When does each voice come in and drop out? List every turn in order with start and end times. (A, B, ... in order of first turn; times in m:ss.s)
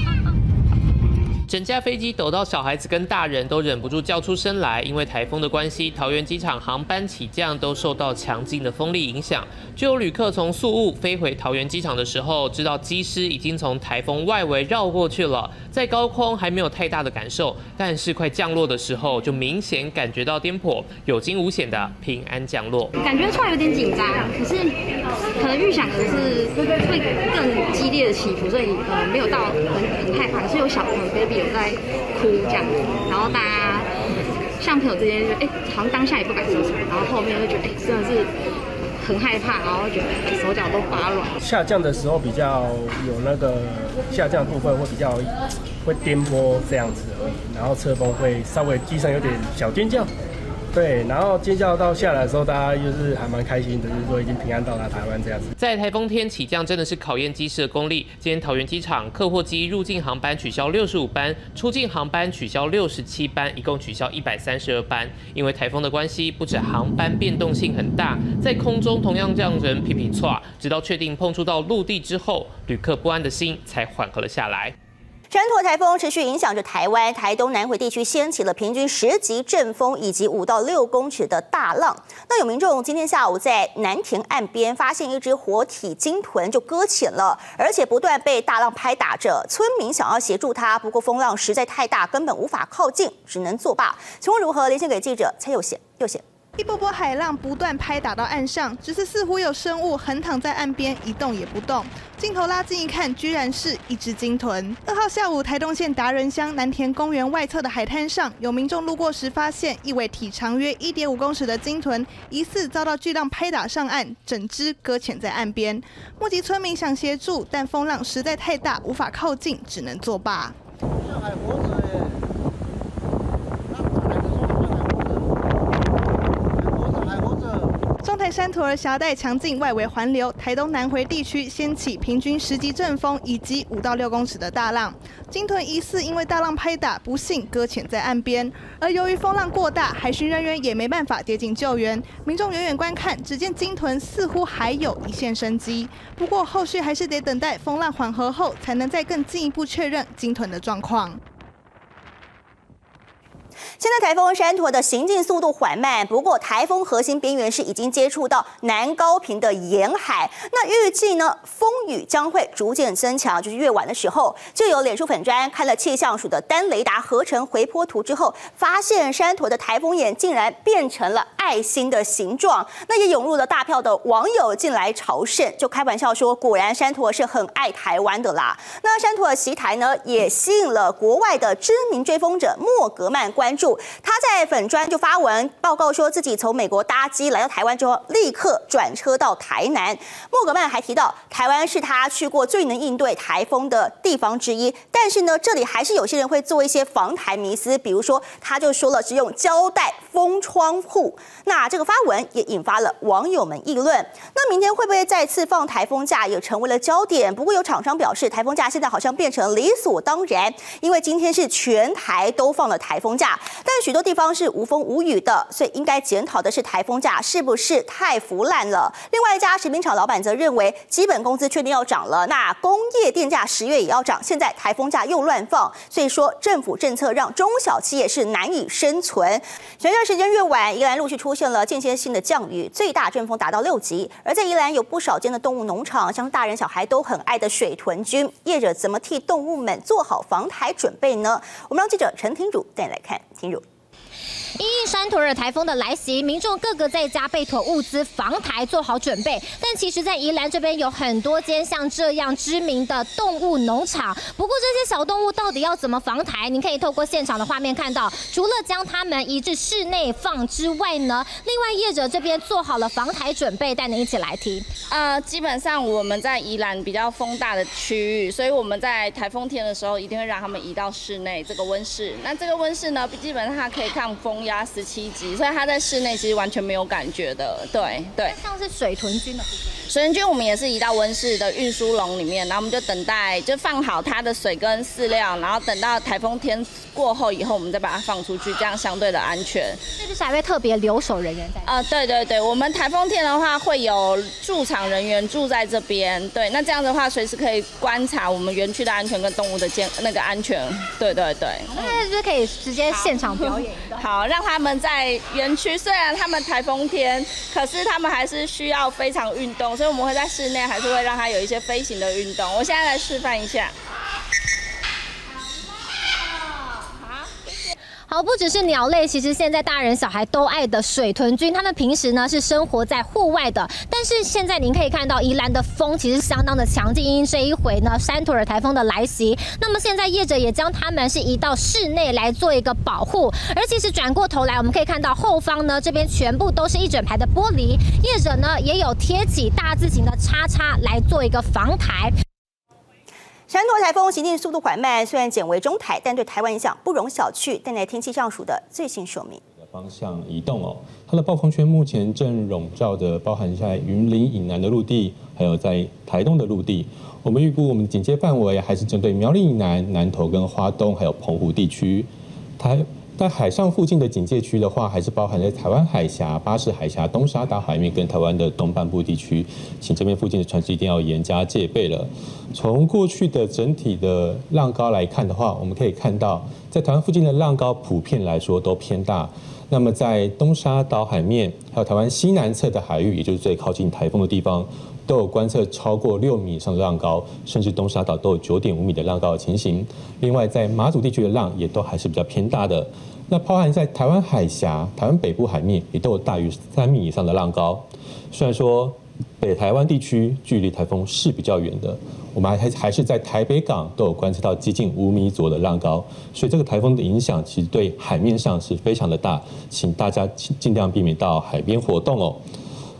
0:01.5-0:22.9 A
0:23.0-0:24.7 B
0:25.4-0:33.9 B
0:34.6-0:38.3 B
0:39.0-0:41.3 B
0:41.4-0:50.1 C
0:50.7-0:55.5 C
0:55.6-1:14.7 A
1:15.3-1:36.2 D
1:36.6-2:00.6 E
2:08.0-2:31.2 E
2:33.8-4:03.6 D
4:04.6-4:24.6 F
4:24.9-4:38.4 G
4:38.2-4:39.6 F
4:39.9-4:49.8 G
4:50.0-4:51.7 F
4:51.6-5:01.9 G
5:01.7-5:04.0 F
5:03.0-5:13.7 G
5:16.9-5:17.5 G
5:18.1-5:42.1 F
5:43.5-5:49.4 D
5:49.6-6:52.4 H